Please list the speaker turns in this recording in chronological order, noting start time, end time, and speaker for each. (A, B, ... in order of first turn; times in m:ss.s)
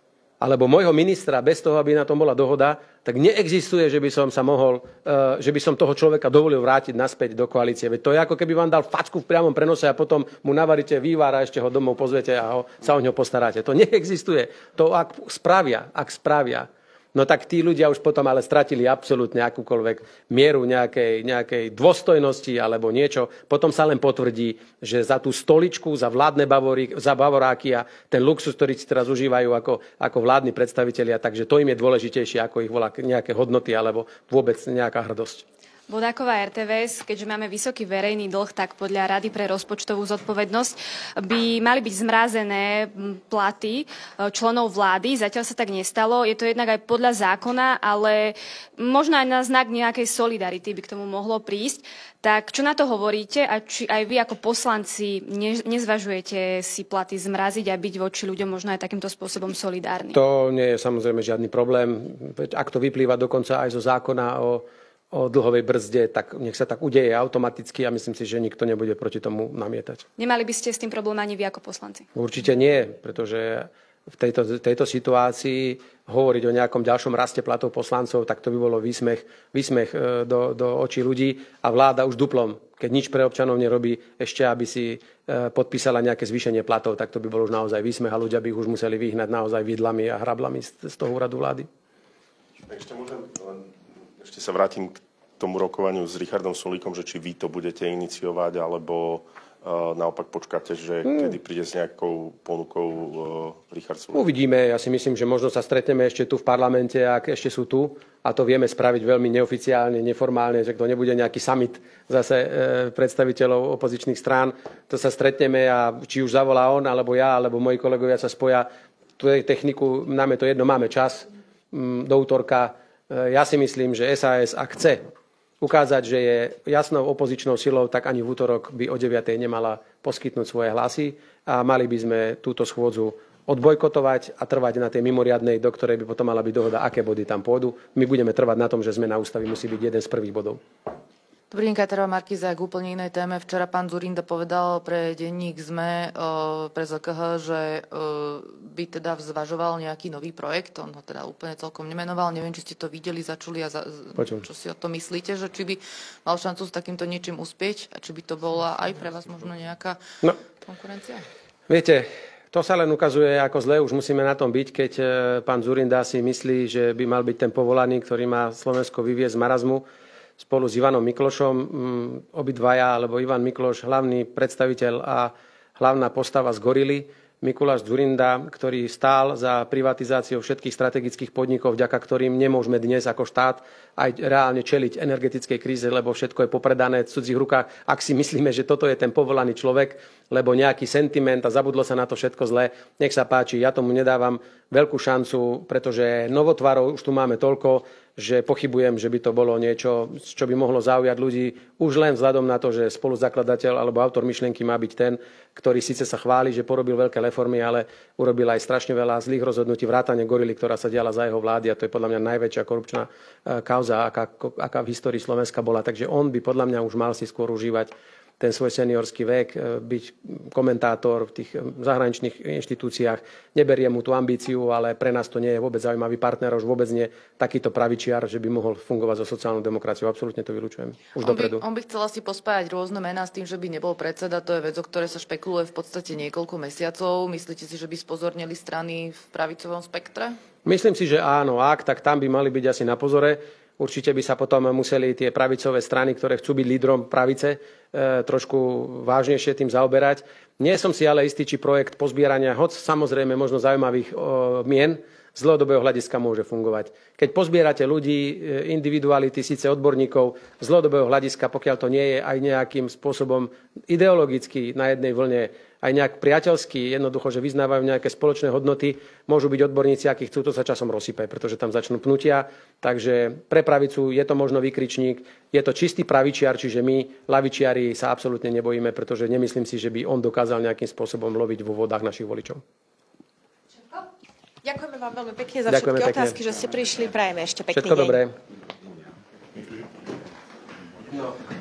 0:00.4-0:35.4 A
0:35.9-1:00.2 B
1:00.1-1:10.0 A
1:10.2-1:12.1 B
1:12.2-1:31.7 A
1:32.7-1:44.2 C
1:44.1-2:05.1 A
2:05.6-2:20.6 A
2:21.5-2:40.0 D
2:34.2-2:34.4 A
2:40.6-2:41.3 D
2:41.7-2:49.8 A
2:50.4-3:51.6 A
3:51.2-4:00.4 D
4:00.6-4:42.6 A
4:44.6-4:48.2 E
4:45.7-4:46.4 A
4:47.7-4:48.4 A
4:51.1-4:51.4 A